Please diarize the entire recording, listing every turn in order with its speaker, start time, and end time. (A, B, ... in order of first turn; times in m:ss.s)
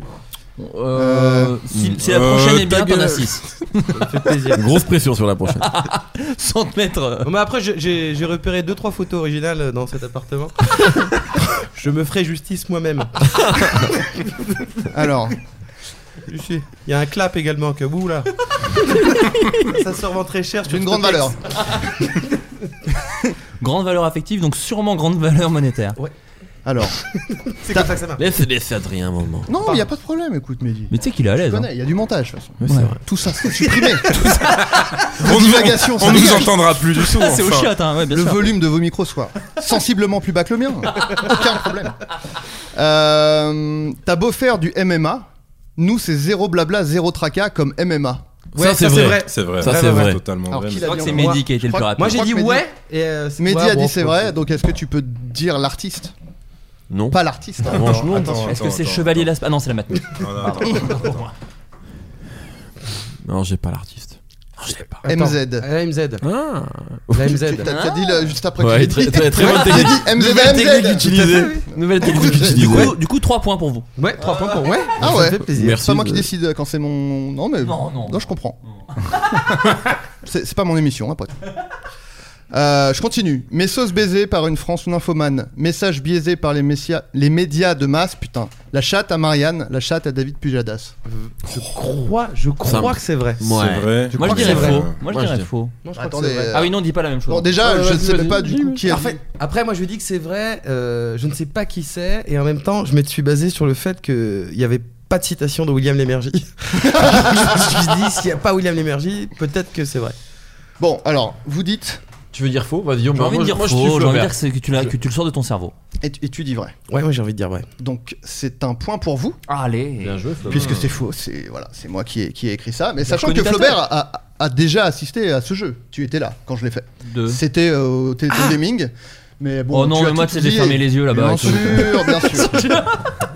0:00.6-0:04.0 A
0:00.9-0:01.6 B
0:01.7-0:02.0 C
0:02.0-0:03.0 D
0:03.9-0:04.6 E
0:04.5-0:05.6 C
0:05.6-0:07.3 A
0:07.2-0:10.5 E
0:11.7-0:13.3 E
0:14.9-0:15.4 B
0:16.3-0:18.3 E
0:19.6-0:21.3 E
0:20.6-0:21.4 B
0:23.6-0:26.0 A
0:26.6-0:27.0 B
0:27.5-0:28.2 E
0:28.2-0:29.5 C
0:29.5-0:34.2 B
0:30.9-0:31.7 A
0:32.6-0:33.0 C
0:32.7-0:32.9 A
0:34.1-0:34.6 A
0:35.1-0:37.7 D
0:35.2-0:36.7 B
0:36.9-0:38.5 A
0:38.1-0:42.0 B
0:42.7-0:48.2 B
0:48.5-0:50.2 E
0:48.5-0:50.2 C
0:49.2-0:51.1 D
0:50.5-0:52.7 B
0:50.8-0:51.4 E
0:50.8-0:52.3 A
0:52.0-0:54.3 E
0:53.4-0:56.1 B
0:56.9-0:58.5 C
0:57.1-0:58.4 B
0:57.8-0:59.3 D
0:58.4-1:01.3 A
1:00.2-1:01.2 D
1:03.2-1:05.0 C
1:05.0-1:06.2 E
1:05.0-1:05.7 B
1:06.2-1:07.4 C
1:07.1-1:07.7 E
1:07.4-1:11.1 B
1:07.6-1:08.0 A
1:08.6-1:12.9 C
1:09.4-1:11.7 E
1:11.7-1:12.9 B
1:12.2-1:14.6 A
1:14.0-1:15.9 E
1:15.0-1:18.6 B
1:15.1-1:16.3 C
1:17.6-1:18.2 A
1:19.0-1:19.4 A
1:20.2-1:21.4 B
1:22.5-1:30.9 B
1:31.0-1:33.4 E
1:32.6-1:35.5 C
1:33.5-1:35.0 D
1:34.1-1:34.8 E
1:34.1-1:35.8 A
1:35.8-1:36.6 E
1:35.9-1:36.7 B
1:36.5-1:37.6 A
1:37.3-1:39.2 B
1:37.6-1:38.8 C
1:38.8-1:50.1 E
1:50.8-1:52.0 B
1:52.3-1:54.4 C
1:53.1-1:55.7 A
1:56.0-1:56.7 B
1:56.9-1:57.7 E
1:57.8-1:59.4 B
1:59.5-2:00.2 A
2:00.0-2:00.9 C
2:00.5-2:12.6 B
2:03.0-2:03.8 A
2:07.0-2:07.4 A
2:09.7-2:12.9 A